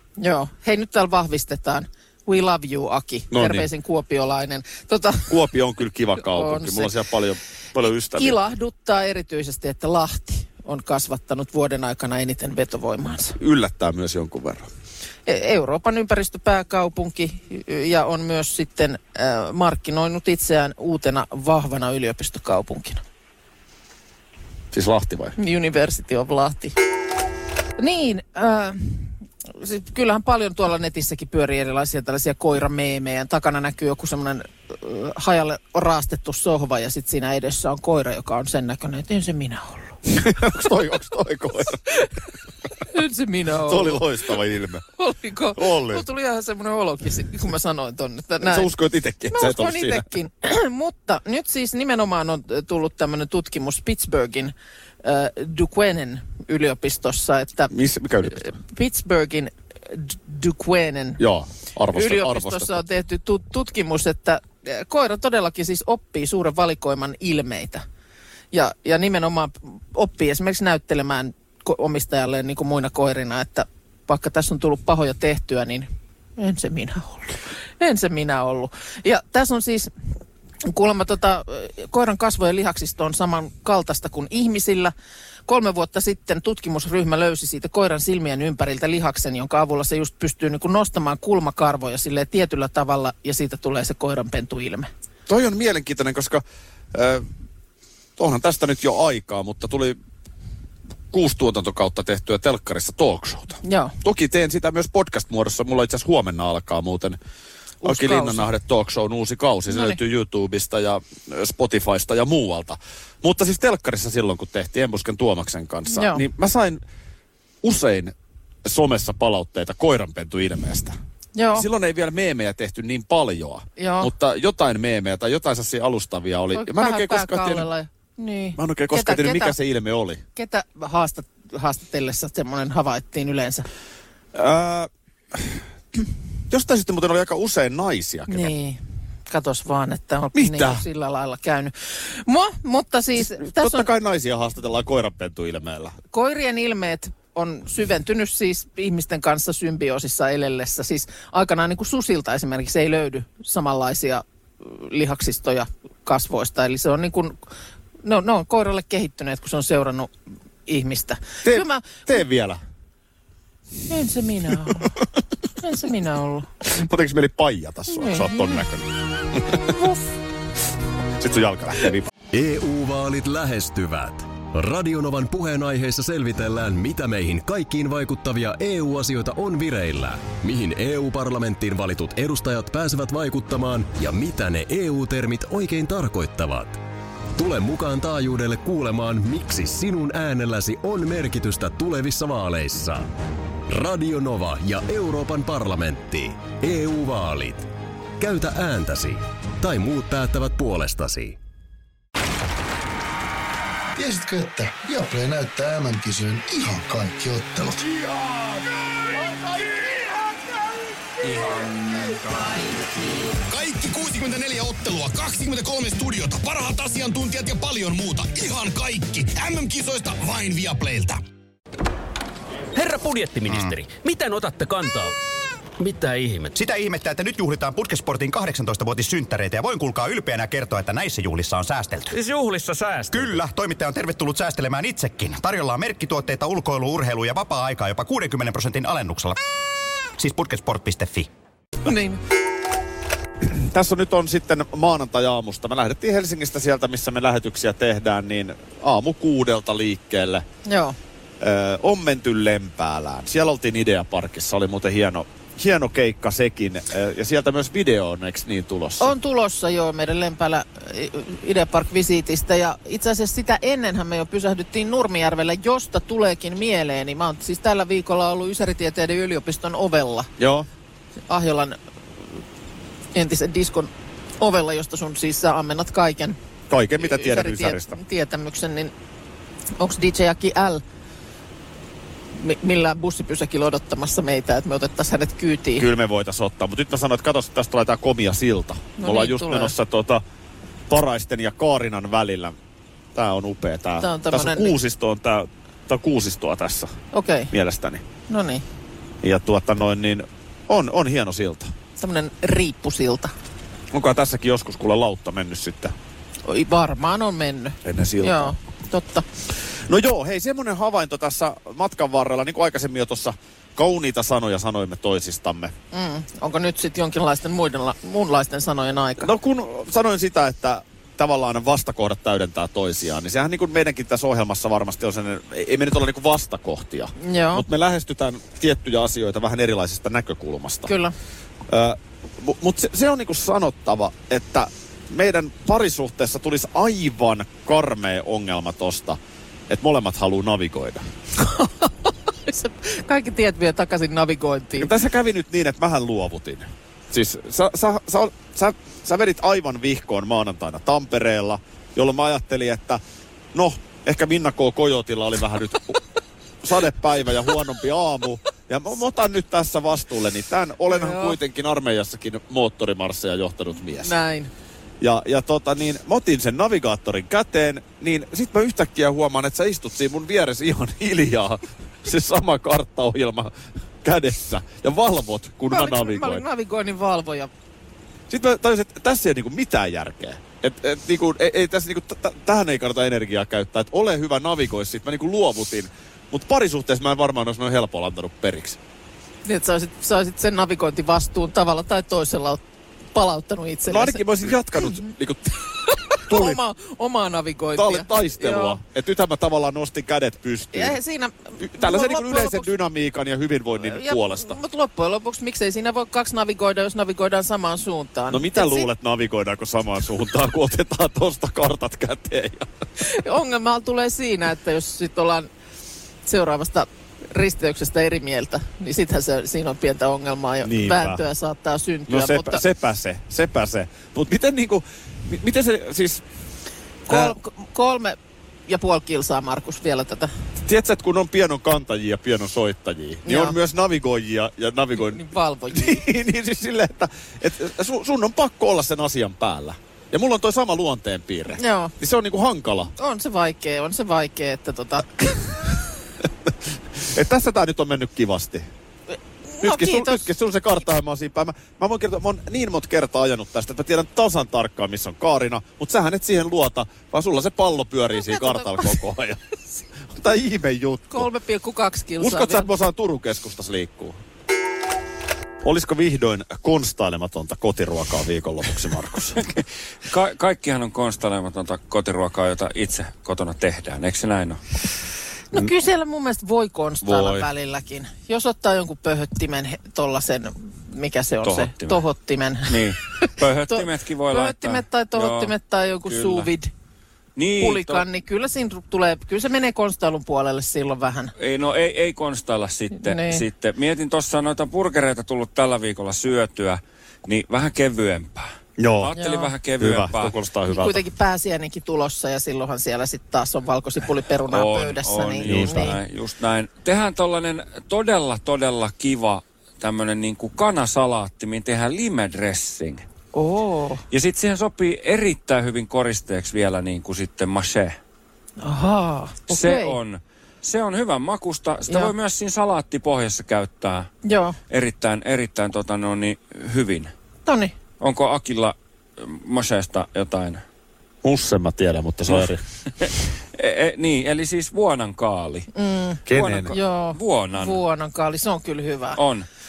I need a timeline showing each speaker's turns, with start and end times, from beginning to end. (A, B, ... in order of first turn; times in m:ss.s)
0:00.2-0:05.3 A
0:03.3-0:03.7 B
0:05.3-0:08.4 B
0:06.2-0:06.9 A
0:08.1-0:13.4 A
0:13.4-0:14.7 B
0:15.3-0:23.0 A
0:24.7-0:25.4 B
0:25.4-0:26.8 A
0:27.8-0:40.0 A
0:40.1-0:41.8 B
0:42.9-0:44.0 A
0:43.7-0:44.8 B
0:45.0-0:48.7 A
0:45.6-0:46.0 B
0:48.4-0:50.0 B
0:49.3-0:57.7 A
0:57.7-0:58.5 B
0:58.3-1:01.2 A
1:01.2-1:02.8 B
1:01.9-1:07.8 A
1:08.5-1:19.9 A
1:20.6-1:24.9 A
1:25.5-1:34.9 A
1:35.3-1:37.2 B
1:38.2-1:40.0 B
1:41.1-1:47.2 B
1:43.6-1:44.0 A
1:47.8-1:48.5 A
1:47.8-1:56.8 B
1:49.7-1:50.0 A
1:55.9-1:56.2 A
1:57.6-1:58.1 B
1:58.6-2:01.0 B
2:01.4-2:01.7 A
2:01.6-2:07.7 B
2:03.8-2:04.1 A
2:06.5-2:09.6 A
2:08.6-2:10.2 B
2:10.4-2:13.7 A
2:14.4-2:15.6 B
2:16.5-2:18.5 B
2:18.3-2:23.9 A
2:20.4-2:20.8 B
2:23.2-2:26.0 B
2:26.1-2:37.4 A
2:38.0-2:40.1 A
2:40.7-2:42.1 A
2:41.4-2:42.6 B
2:43.9-2:45.0 A
2:45.6-2:46.5 A
2:46.6-2:49.7 B
2:47.9-2:48.6 A
2:49.7-2:50.1 A
2:51.2-2:52.1 B
2:52.3-3:06.8 C
3:07.4-3:13.1 C
3:13.7-3:17.7 C
3:18.2-3:21.4 C
3:24.0-3:28.4 D
3:33.5-3:41.2 E
3:42.8-3:45.1 F
3:45.8-3:46.5 F
3:46.5-3:52.2 G
3:52.1-3:53.4 F
3:53.1-3:59.4 G
4:00.2-4:01.3 G
4:01.8-4:02.2 A
4:03.5-4:10.4 B
4:10.6-4:11.0 A
4:11.4-4:19.1 B
4:19.0-4:30.3 A
4:30.4-4:30.7 B
4:31.3-4:31.8 A
4:33.1-4:36.4 A
4:36.7-4:38.0 B
4:37.0-4:38.9 A
4:39.8-4:40.8 A
4:42.4-4:45.9 A
4:45.8-4:50.2 B
4:49.0-4:49.7 A
4:50.9-4:52.6 B
4:53.2-4:56.9 B
4:54.0-4:54.8 A
4:57.1-4:57.5 A
4:57.5-4:58.0 B
4:58.3-4:58.6 A
4:59.2-5:01.7 B
5:02.0-5:03.3 A
5:03.9-5:05.9 B
5:06.5-5:09.2 A
5:07.8-5:08.6 B
5:09.9-5:15.7 B
5:15.9-5:19.3 A
5:19.2-5:30.9 B
5:27.2-5:27.6 A
5:30.9-5:31.2 A
5:31.7-5:39.2 B
5:39.7-5:41.0 B
5:41.4-5:44.9 A
5:44.8-5:53.0 B
5:53.5-5:56.0 B
5:56.6-6:04.1 B
6:00.9-6:01.4 A
6:04.0-6:04.5 A
6:05.0-6:16.4 B
6:15.7-6:17.5 A
6:18.3-6:28.8 B
6:29.5-6:32.6 A
6:33.2-6:34.3 A
6:33.9-6:35.5 B
6:35.8-6:38.8 A
6:36.2-6:36.6 B
6:37.8-6:41.0 B
6:40.7-6:42.7 A
6:41.6-6:44.6 B
6:43.8-6:48.9 A
6:48.3-6:52.7 B
6:53.0-6:55.5 A
6:56.2-7:02.6 A
7:00.6-7:01.2 B
7:02.1-7:06.2 B
7:07.1-7:10.3 A
7:07.1-7:07.3 B
7:10.6-7:15.2 B
7:13.2-7:13.6 A
7:15.0-7:16.0 A
7:15.7-7:22.9 B
7:21.6-7:21.9 A
7:23.0-7:25.6 A
7:26.5-7:28.7 B
7:29.5-7:30.2 A
7:29.6-7:39.4 B
7:38.2-7:39.0 A
7:40.1-7:41.3 B
7:41.1-7:42.7 A
7:42.2-7:44.2 B
7:45.6-7:49.5 B
7:50.1-7:54.6 H
7:55.5-8:06.7 A
7:57.0-7:57.5 B
8:01.4-8:02.0 H
8:02.7-8:05.5 H
8:06.0-8:06.5 H
8:07.4-8:08.0 H
8:07.6-8:11.3 A
8:11.4-8:20.3 H
8:13.0-8:13.4 A
8:18.8-8:19.1 B
8:19.2-8:19.5 A
8:19.8-8:21.0 B
8:20.7-8:26.0 A
8:24.5-8:33.0 H
8:25.4-8:25.9 B
8:33.3-8:34.0 A
8:34.1-8:38.0 H
8:38.6-8:40.0 A
8:39.5-8:44.1 H
8:44.2-8:44.6 A
8:44.7-8:47.1 H
8:47.5-8:47.7 A
8:48.0-8:50.6 H
8:51.2-8:52.6 B
8:52.3-8:55.7 H
8:55.8-8:59.2 A
8:56.3-8:56.7 B
8:56.3-8:57.8 H
8:59.2-8:59.5 H